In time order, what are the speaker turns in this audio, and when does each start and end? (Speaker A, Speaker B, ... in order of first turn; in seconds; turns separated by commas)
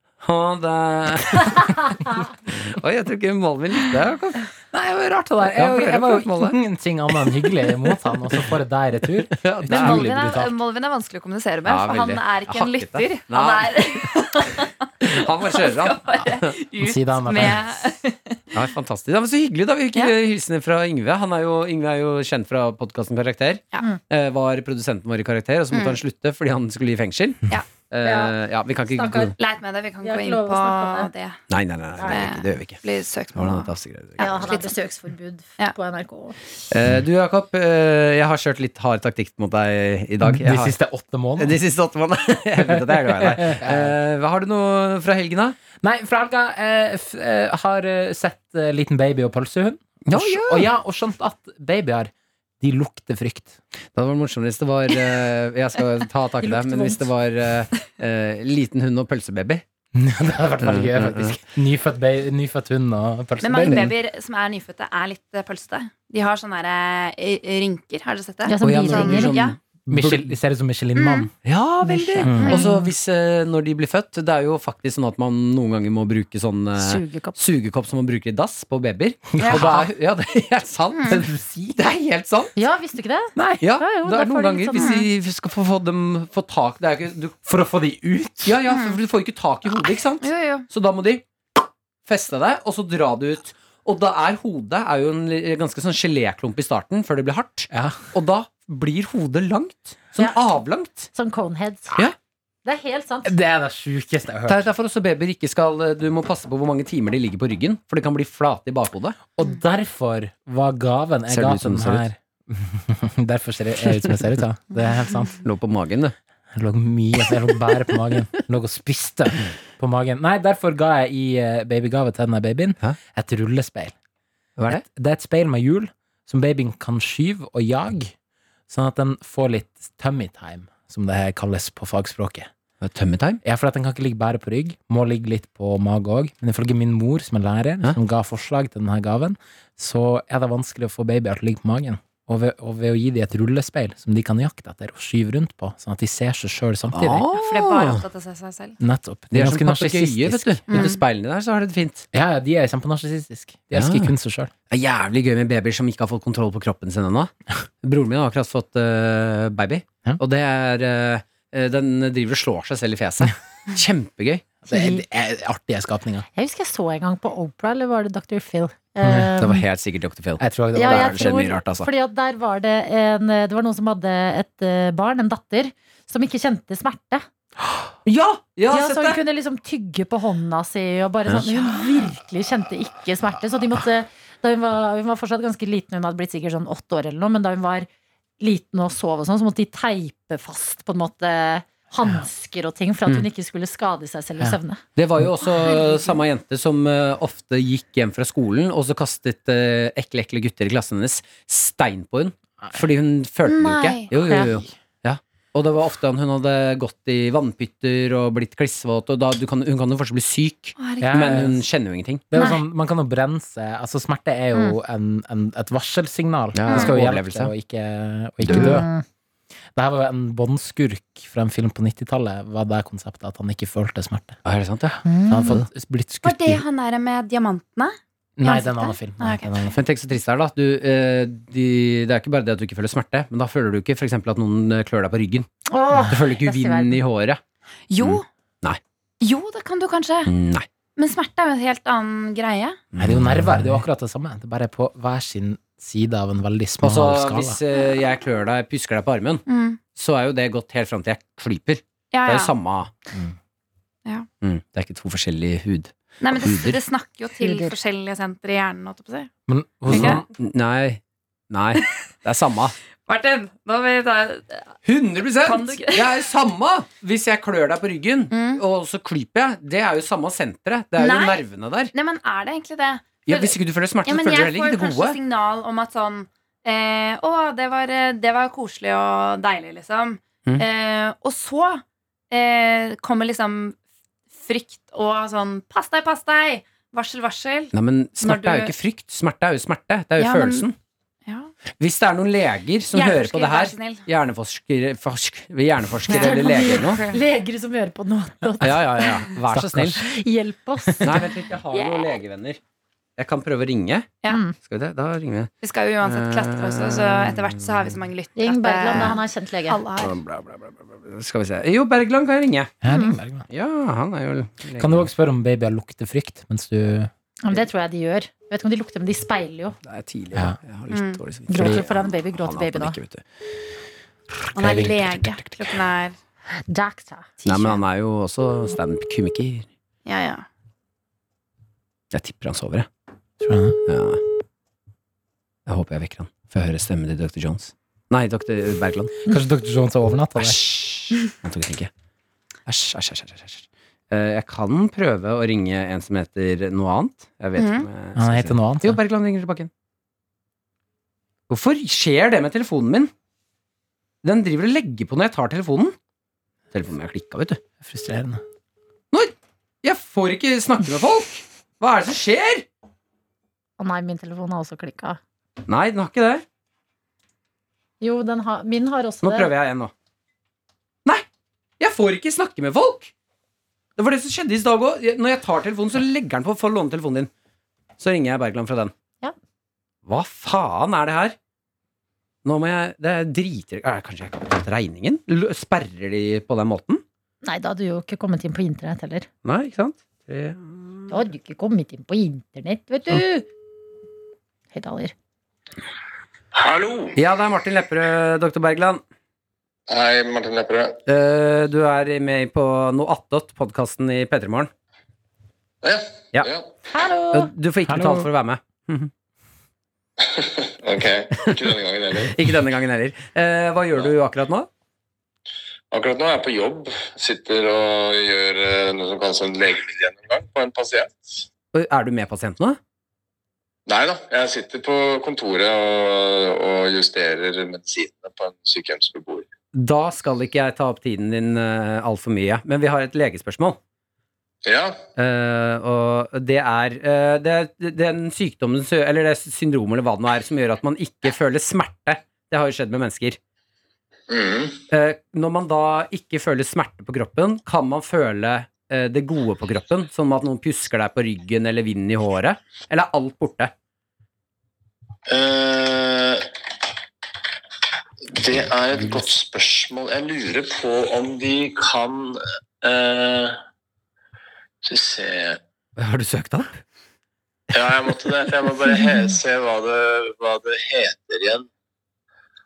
Speaker A: 0.2-4.4, Speaker B: 4.7-10.5, Speaker A: 5.5-6.6, Speaker A: 9.4-10.1, Speaker C: 9.7-18.4, Speaker A: 11.7-14.1, Speaker A: 15.0-16.6, Speaker B: 16.8-17.7, Speaker A: 18.5-29.3, Speaker C: 25.7-26.0, Speaker D: 28.0-28.3, Speaker D: 28.9-29.4, Speaker C: 29.4-31.4, Speaker D: 30.0-31.1, Speaker A: 31.5-32.8, Speaker D: 32.0-32.3, Speaker C: 32.1-34.8, Speaker A: 33.3-34.5, Speaker D: 34.2-36.4, Speaker A: 36.7-40.8, Speaker B: 40.2-41.6, Speaker A: 41.4-45.6, Speaker B: 42.6-43.9, Speaker B: 45.8-53.6, Speaker A: 50.1-50.7, Speaker A: 54.0-59.6, Speaker D: 56.4-57.1, Speaker B: 60.0-63.9, Speaker A: 60.6-61.4, Speaker C: 63.4-69.6, Speaker A: 63.6-63.9, Speaker D: 68.5-69.4, Speaker A: 68.6-70.3, Speaker B: 69.9-71.3, Speaker C: 71.0-71.3, Speaker A: 71.4-82.5, Speaker D: 71.8-72.9, Speaker B: 72.2-72.6, Speaker C: 72.4-72.8, Speaker D: 76.8-77.4, Speaker B: 79.4-79.9, Speaker C: 79.4-79.8, Speaker C: 80.9-81.2, Speaker B: 81.1-81.8, Speaker D: 82.6-85.0, Speaker B: 83.4-83.6, Speaker A: 83.6-87.5, Speaker C: 84.8-85.1, Speaker B: 87.5-88.6, Speaker A: 88.5-91.2, Speaker C: 90.2-90.7, Speaker A: 92.1-101.1, Speaker B: 97.7-98.0, Speaker D: 101.1-102.0, Speaker D: 102.7-103.3, Speaker B: 103.2-104.7, Speaker A: 104.5-109.2, Speaker B: 109.4-115.4, Speaker A: 111.3-112.1, Speaker A: 115.4-116.2, Speaker B: 116.5-123.9, Speaker A: 124.6-124.8, Speaker B: 124.7-128.2, Speaker B: 128.7-132.5, Speaker A: 132.8-133.4, Speaker B: 133.4-147.3, Speaker A: 146.9-148.0, Speaker C: 147.3-148.8, Speaker B: 148.8-150.6, Speaker A: 149.3-152.1, Speaker C: 150.7-151.0, Speaker B: 152.1-154.5, Speaker A: 153.7-154.1, Speaker A: 154.7-164.4, Speaker B: 164.7-166.3, Speaker D: 164.7-165.0, Speaker D: 166.3-169.6, Speaker B: 169.0-169.3, Speaker A: 169.4-171.9, Speaker B: 170.4-171.4, Speaker D: 170.8-177.2, Speaker A: 178.1-179.2, Speaker D: 178.7-187.9, Speaker D: 188.4-194.8, Speaker A: 195.0-212.3, Speaker C: 203.5-204.1, Speaker B: 204.3-204.6, Speaker C: 210.8-211.4, Speaker B: 211.0-211.6, Speaker B: 212.3-218.9, Speaker A: 216.5-217.5, Speaker C: 216.7-216.9, Speaker A: 218.4-218.8, Speaker D: 218.5-219.0, Speaker B: 219.8-224.4, Speaker A: 224.4-225.0, Speaker D: 225.1-225.6, Speaker B: 225.3-226.6, Speaker C: 226.2-229.5, Speaker B: 228.4-229.8, Speaker A: 229.7-235.5, Speaker D: 235.7-237.0, Speaker A: 236.1-237.4, Speaker C: 237.9-238.2, Speaker A: 238.0-238.8, Speaker C: 239.2-240.3, Speaker A: 240.3-240.7, Speaker C: 241.0-242.8, Speaker A: 242.9-243.8, Speaker B: 243.0-247.6, Speaker A: 246.8-249.4, Speaker C: 249.5-249.8, Speaker A: 249.9-252.9, Speaker C: 252.1-252.5, Speaker A: 254.4-256.8, Speaker C: 256.2-259.3, Speaker D: 257.4-257.8, Speaker B: 259.5-260.3, Speaker A: 259.9-262.8, Speaker C: 259.9-260.2, Speaker C: 263.1-264.7, Speaker A: 264.9-271.9, Speaker C: 265.4-266.1, Speaker C: 268.3-268.6, Speaker C: 271.0-283.8, Speaker A: 273.3-275.2, Speaker C: 284.4-288.8, Speaker A: 287.7-290.8, Speaker C: 290.2-290.7, Speaker A: 291.8-297.0, Speaker C: 292.9-294.0, Speaker C: 296.1-297.2, Speaker D: 296.1-299.3, Speaker A: 298.6-300.0, Speaker B: 299.5-300.0, Speaker D: 300.0-301.2, Speaker B: 300.9-301.2, Speaker A: 301.0-302.6, Speaker A: 303.2-305.5, Speaker D: 304.3-304.6, Speaker C: 305.6-310.2, Speaker A: 306.0-308.0, Speaker D: 308.4-309.8, Speaker A: 310.0-312.8, Speaker B: 312.8-313.5, Speaker D: 312.9-313.2, Speaker A: 313.5-315.1, Speaker B: 314.8-317.1, Speaker D: 317.4-319.8, Speaker A: 319.9-323.2, Speaker C: 320.9-321.2, Speaker D: 321.5-323.0, Speaker B: 321.6-321.9, Speaker C: 324.6-326.2, Speaker B: 324.6-325.0, Speaker A: 325.2-325.8, Speaker D: 326.7-327.7, Speaker C: 327.5-327.8, Speaker A: 327.5-329.7, Speaker C: 330.1-330.4, Speaker A: 332.1-332.9, Speaker B: 333.4-333.8, Speaker A: 333.9-334.2, Speaker A: 335.7-339.2, Speaker B: 339.3-340.6, Speaker A: 340.4-341.9, Speaker A: 342.7-349.7, Speaker C: 347.6-347.9, Speaker B: 348.1-349.0, Speaker A: 351.5-353.1, Speaker A: 354.2-355.9, Speaker A: 356.7-357.6, Speaker B: 357.8-358.4, Speaker A: 359.1-362.6, Speaker D: 363.8-365.2, Speaker A: 365.7-366.4, Speaker D: 368.0-369.5, Speaker A: 369.2-369.9, Speaker A: 371.8-373.1, Speaker A: 374.0-377.3, Speaker A: 378.0-378.9, Speaker A: 380.1-381.4, Speaker A: 382.4-387.0, Speaker D: 387.4-389.3, Speaker A: 389.4-390.7, Speaker D: 391.1-393.5, Speaker D: 394.7-395.1, Speaker E: 396.5-397.2, Speaker A: 397.2-399.0, Speaker E: 399.9-401.0, Speaker A: 401.1-404.7, Speaker E: 405.8-406.6, Speaker D: 406.9-407.5, Speaker A: 407.3-409.1, Speaker B: 407.9-408.3, Speaker E: 410.2-412.4, Speaker A: 411.4-414.7, Speaker E: 415.9-421.4, Speaker A: 421.7-422.8, Speaker E: 423.9-429.5, Speaker A: 429.7-433.8, Speaker E: 434.6-435.0, Speaker A: 435.2-443.4, Speaker E: 444.3-444.8, Speaker A: 444.9-453.7, Speaker E: 455.3-456.5, Speaker E: 458.3-463.6, Speaker E: 464.8-465.6, Speaker A: 466.0-466.8, Speaker E: 467.7-471.7